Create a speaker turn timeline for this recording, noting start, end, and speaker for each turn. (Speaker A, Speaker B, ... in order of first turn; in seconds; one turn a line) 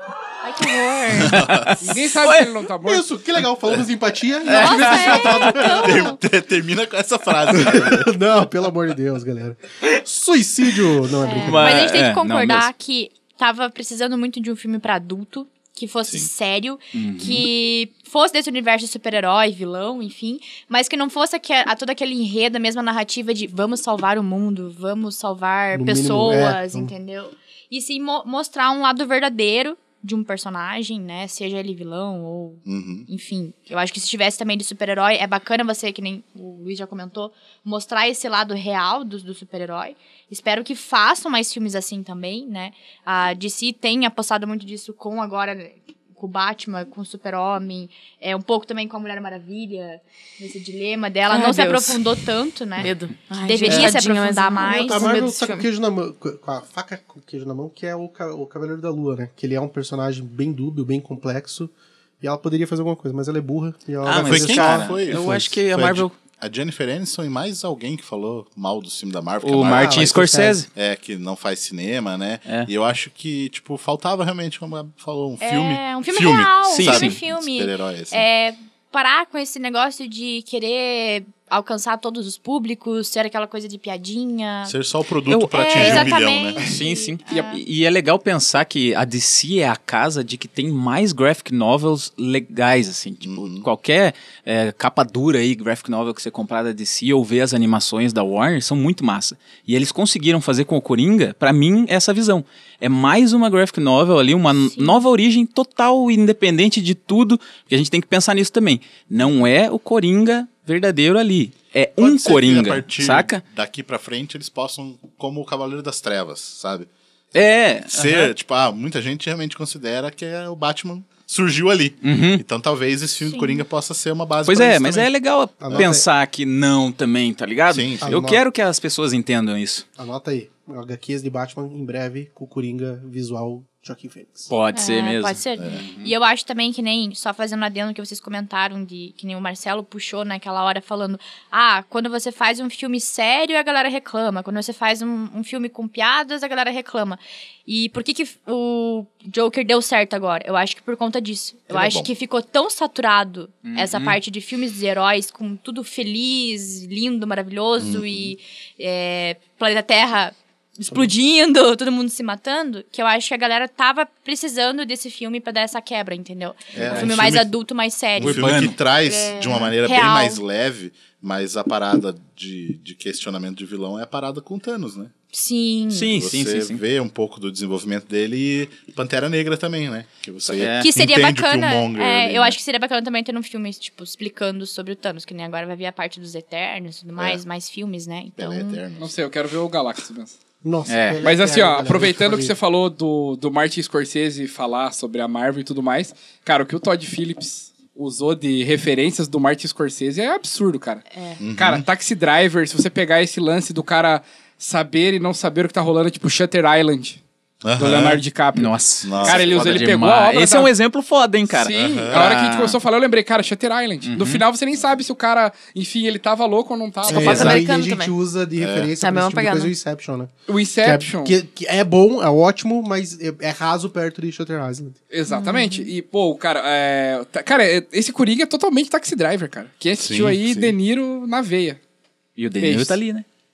Speaker A: 0.4-1.4
Speaker B: 1.1-2.5
Speaker C: 1.2-1.9
Speaker D: 1.8-3.1
Speaker E: 2.8-6.1
Speaker A: 4.5-6.2
Speaker B: 4.5-5.5
Speaker C: 5.7-8.1
Speaker E: 7.5-11.8
Speaker A: 11.2-52.9
Speaker B: 11.3-12.7
Speaker B: 16.9-17.5
Speaker E: 25.7-26.9
Speaker C: 32.6-33.1
Speaker F: 51.3-52.0
Speaker F: 52.8-55.6
Speaker A: 53.4-55.1
Speaker E: 53.7-54.0
Speaker E: 54.6-65.4
Speaker B: 64.0-66.1
Speaker C: 64.1-78.2
Speaker B: 69.4-70.7
Speaker E: 69.7-70.6
Speaker A: 75.4-84.8
Speaker B: 76.7-77.2
Speaker C: 84.7-86.7
Speaker B: 85.3-113.4
Speaker A: 85.5-87.6
Speaker C: 93.2-93.7
Speaker A: 104.5-105.0
Speaker C: 112.0-116.9
Speaker B: 117.3-118.3
Speaker C: 117.9-125.1
Speaker B: 122.0-122.4
Speaker A: 123.3-123.6
Speaker B: 124.5-129.8
Speaker E: 125.6-126.0
Speaker C: 125.7-126.0
Speaker C: 127.7-128.2
Speaker E: 128.0-128.4
Speaker E: 130.0-134.5
Speaker B: 134.5-136.1
Speaker A: 134.7-170.4
Speaker C: 151.7-152.1
Speaker B: 153.7-154.2
Speaker C: 157.8-158.3
Speaker C: 166.7-167.5
Speaker B: 166.9-167.3
Speaker C: 168.2-175.1
Speaker B: 168.2-168.8
Speaker A: 175.3-176.1
Speaker B: 175.9-176.8
Speaker C: 176.1-182.6
Speaker B: 180.4-180.9
Speaker A: 180.8-188.8
Speaker C: 187.2-187.4
Speaker C: 188.3-189.2
Speaker D: 188.9-190.4
Speaker E: 190.6-192.5
Speaker B: 190.9-191.2
Speaker D: 191.2-201.0
Speaker A: 201.1-201.4
Speaker C: 201.4-201.9
Speaker D: 201.6-207.2
Speaker C: 207.6-208.2
Speaker D: 207.8-210.7
Speaker B: 208.5-212.8
Speaker C: 209.0-209.9
Speaker D: 211.5-217.6
Speaker C: 211.7-212.4
Speaker B: 214.0-214.4
Speaker E: 217.1-225.0
Speaker F: 217.1-218.1
Speaker B: 217.1-217.6
Speaker C: 218.6-218.9
Speaker F: 219.0-219.7
Speaker D: 220.5-221.3
Speaker D: 225.1-231.8
Speaker A: 225.3-225.9
Speaker C: 229.9-230.8
Speaker B: 232.4-233.2
Speaker D: 232.6-233.0